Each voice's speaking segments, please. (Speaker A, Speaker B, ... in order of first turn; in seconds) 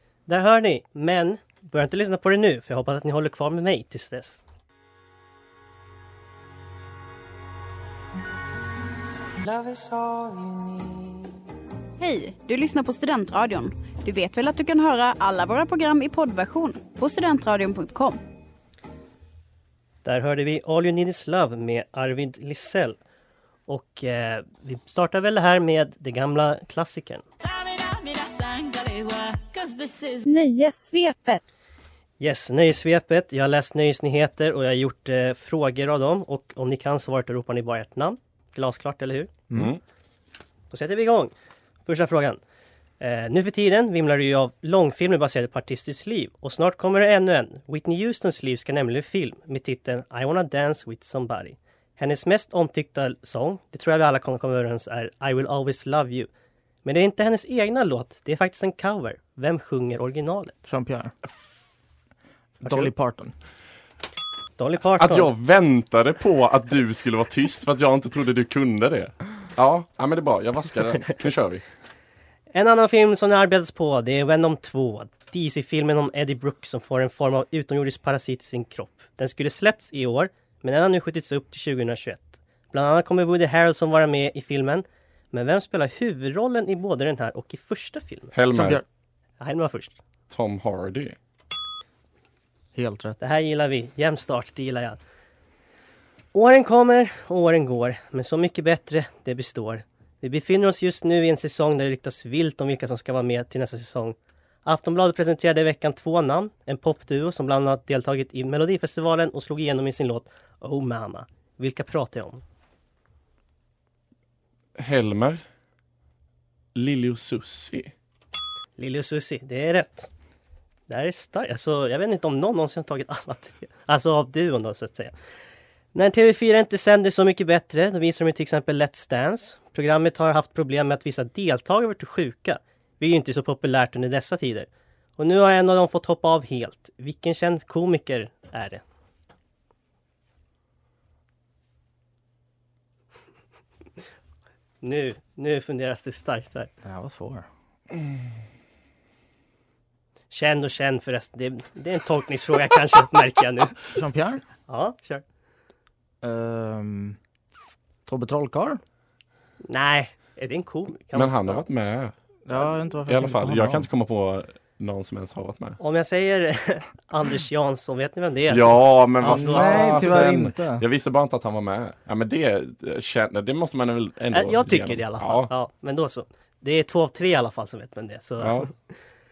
Speaker A: 0.3-4.4, 20.1-23.0, 23.7-27.2, 32.2-39.3, 40.7-41.3, 41.9-42.4, 43.0-56.3, 56.9-60.7, 64.6-65.3, 72.5-88.3, 89.4-90.0, 93.2-95.0, 96.3-112.4, 118.8-120.1, 120.9-125.1, 125.9-138.8, 144.8-146.7, 150.3-153.8, 154.7-155.2, 159.7-161.6, 165.8-170.3, 174.3-178.7
Speaker B: 12.0-18.2
Speaker C: 27.4-31.4
Speaker D: 39.5-39.8, 65.0-71.6, 88.3-88.8, 90.3-91.2, 114.8-115.4, 116.8-117.9, 161.1-162.1, 163.1-165.8, 168.5-175.5, 178.4-178.7
Speaker E: 60.7-61.1, 62.6-63.3, 88.5-88.8, 92.8-93.2, 146.8-147.5, 153.9-154.4, 156.2-157.2, 158.1-158.8, 162.5-163.9, 169.2-170.8